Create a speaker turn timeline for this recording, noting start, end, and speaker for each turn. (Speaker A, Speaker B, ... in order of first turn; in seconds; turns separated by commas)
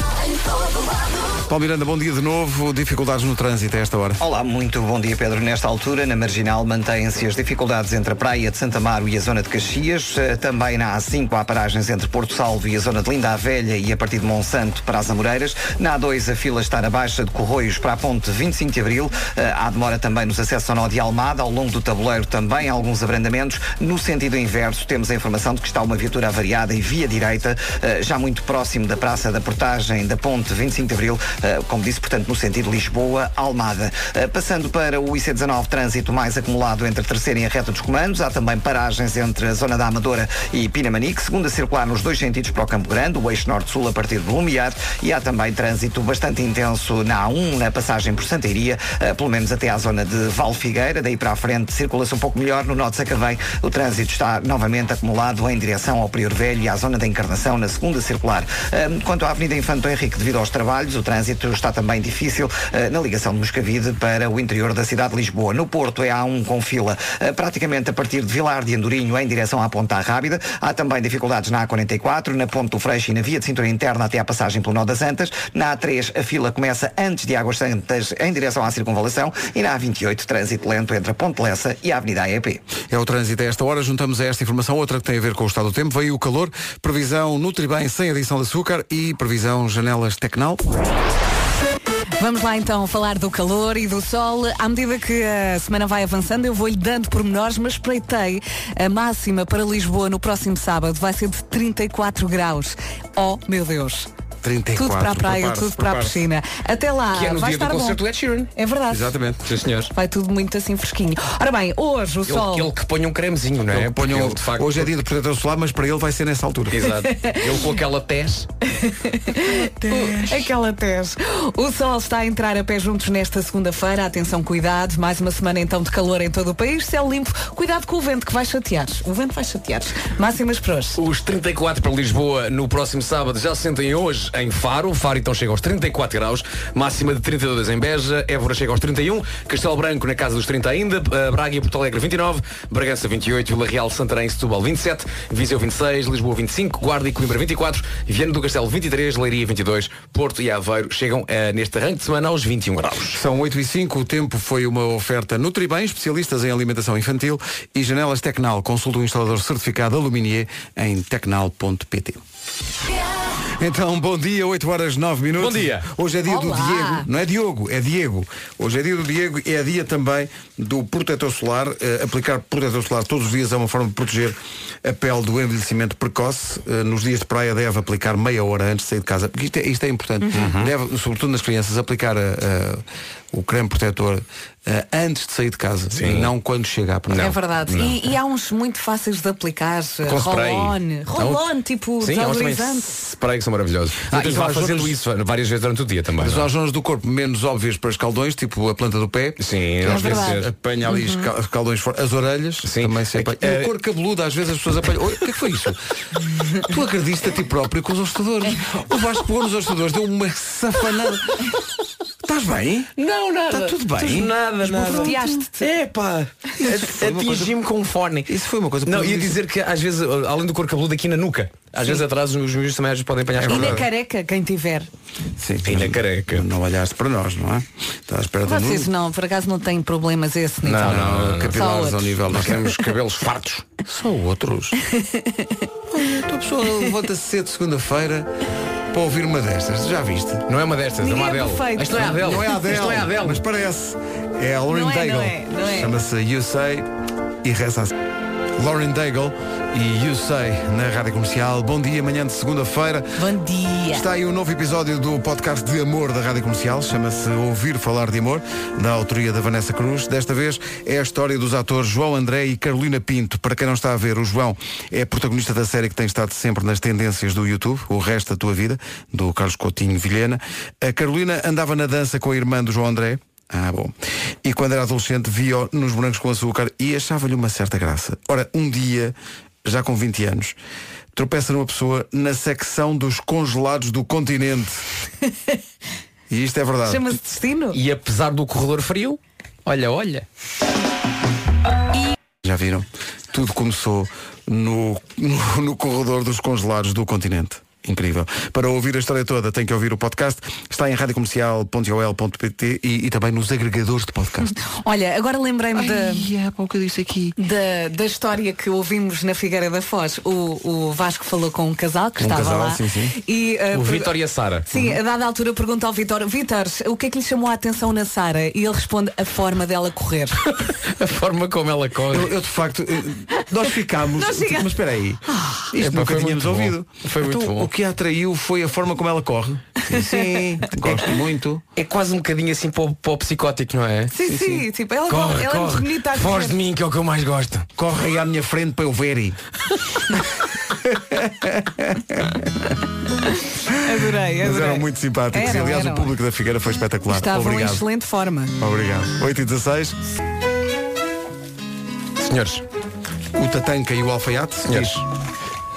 Speaker A: 1.4-4.2, Speaker B: 4.2-82.7, Speaker A: 82.9-90.6, Speaker C: 92.2-104.1, Speaker A: 104.4-106.2, Speaker C: 104.8-108.0, Speaker D: 107.1-108.5, Speaker C: 108.5-109.1, Speaker A: 108.9-109.4, Speaker D: 109.4-109.9, Speaker C: 109.9-112.7, Speaker D: 112.3-114.9, Speaker A: 113.7-116.9, Speaker D: 116.7-118.5, Speaker C: 117.1-117.5, Speaker C: 118.8-131.0, Speaker D: 120.0-120.3, Speaker D: 131.0-153.2, Speaker A: 153.1-162.2, Speaker A: 163.5-187.3, Speaker D: 165.4-165.9, Speaker C: 166.2-167.1, Speaker D: 180.3-180.7, Speaker D: 185.9-186.3, Speaker D: 187.1-187.9, Speaker C: 187.1-192.9, Speaker D: 190.1-191.4, Speaker D: 192.0-196.5, Speaker A: 194.1-195.0, Speaker A: 196.2-205.8, Speaker D: 199.4-200.5, Speaker C: 199.8-200.3, Speaker C: 200.9-201.3, Speaker D: 202.6-203.7, Speaker A: 206.6-211.6, Speaker A: 212.2-212.9, Speaker D: 213.0-223.8, Speaker A: 213.5-215.3, Speaker C: 214.9-215.6, Speaker A: 216.6-217.5, Speaker A: 218.3-219.4, Speaker A: 223.3-223.9, Speaker C: 223.5-224.9, Speaker A: 225.4-228.9, Speaker D: 225.6-226.4, Speaker C: 228.4-231.0, Speaker D: 230.6-231.6, Speaker A: 230.8-232.7, Speaker C: 231.5-232.2, Speaker D: 232.3-233.7, Speaker A: 233.8-234.8, Speaker C: 234.8-235.6, Speaker A: 235.9-238.3, Speaker A: 238.9-240.4, Speaker D: 240.5-243.4, Speaker C: 241.0-242.1, Speaker A: 241.9-246.9, Speaker C: 244.7-245.9, Speaker A: 247.4-247.9, Speaker A: 248.6-253.2, Speaker C: 253.2-254.1, Speaker A: 253.9-280.6, Speaker A: 281.1-284.8, Speaker A: 286.3-287.0, Speaker C: 286.9-287.8, Speaker D: 287.7-290.2, Speaker A: 292.4-304.5, Speaker C: 304.6-306.3, Speaker A: 305.7-307.4, Speaker C: 307.4-314.1, Speaker A: 312.2-313.1, Speaker D: 313.7-314.6, Speaker C: 314.7-320.5, Speaker A: 314.7-315.0, Speaker D: 320.6-322.3, Speaker A: 322.1-331.6, Speaker C: 324.2-324.7, Speaker C: 325.3-325.6, Speaker D: 325.7-327.7, Speaker D: 331.8-334.1, Speaker C: 334.1-336.6, Speaker A: 334.2-334.6, Speaker D: 335.1-337.7, Speaker A: 337.8-339.4, Speaker A: 340.7-342.7, Speaker A: 343.7-347.8, Speaker C: 343.8-346.1, Speaker C: 347.1-348.5, Speaker A: 348.6-350.0, Speaker D: 352.2-352.6, Speaker A: 353.3-355.0, Speaker D: 354.6-355.0